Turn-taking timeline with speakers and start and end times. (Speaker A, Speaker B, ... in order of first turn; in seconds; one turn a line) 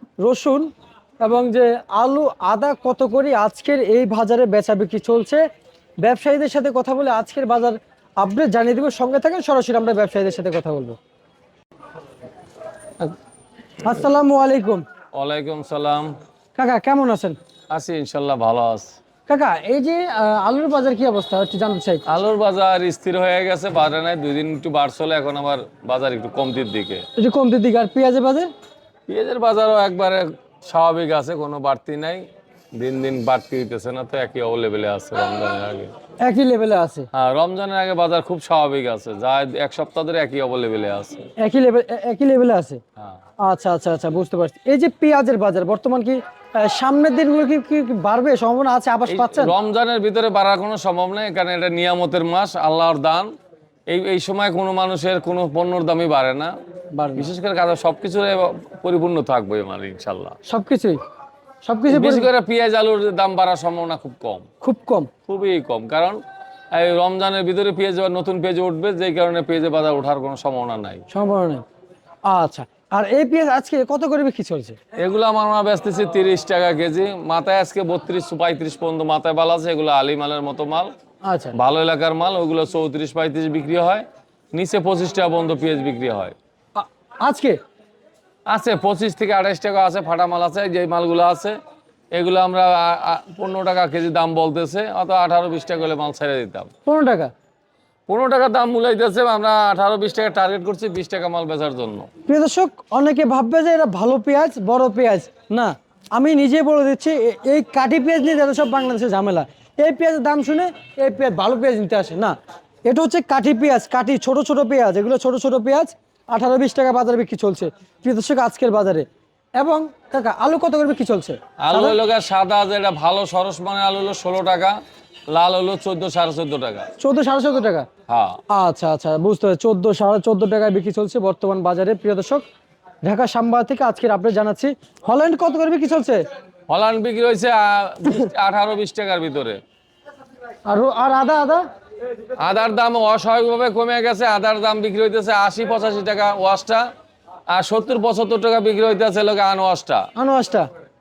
Speaker A: 0.2-0.7
Speaker A: 1.2-5.4
Speaker A: 6.0-11.0
Speaker A: 13.8-14.8
Speaker B: 15.1-16.1
Speaker A: 16.6-17.4
Speaker B: 17.7-19.0
Speaker A: 19.3-22.0
Speaker B: 22.1-27.0
Speaker A: 27.2-28.5
Speaker B: 29.1-32.2
Speaker B: 32.8-35.9
Speaker A: 36.2-37.1
Speaker B: 37.1-41.3
Speaker A: 41.4-42.8
Speaker A: 43.4-49.5
Speaker B: 49.1-53.3
Speaker B: 53.9-56.5
Speaker A: 56.9-57.3
Speaker B: 57.2-60.4
Speaker A: 60.5-61.0
Speaker A: 61.6-62.3
Speaker B: 61.9-64.5
Speaker A: 64.6-65.1
Speaker B: 65.3-66.2
Speaker B: 66.7-71.0
Speaker A: 71.1-71.6
Speaker A: 72.3-74.8
Speaker B: 75.0-80.9
Speaker A: 81.2-81.5
Speaker B: 81.5-86.3
Speaker A: 86.8-87.6
Speaker B: 88.5-91.6
Speaker B: 92.1-96.7
Speaker A: 96.9-97.3
Speaker B: 98.1-102.1
Speaker A: 102.3-119.1
Speaker A: 119.6-122.0
Speaker B: 121.6-124.8
Speaker B: 125.3-126.9
Speaker A: 127.0-127.9
Speaker B: 128.1-128.4
Speaker A: 128.5-132.4
Speaker A: 133.0-136.2
Speaker B: 136.7-139.6
Speaker A: 140.7-141.7
Speaker B: 142.4-146.9
Speaker B: 147.5-150.1
Speaker A: 150.2-150.7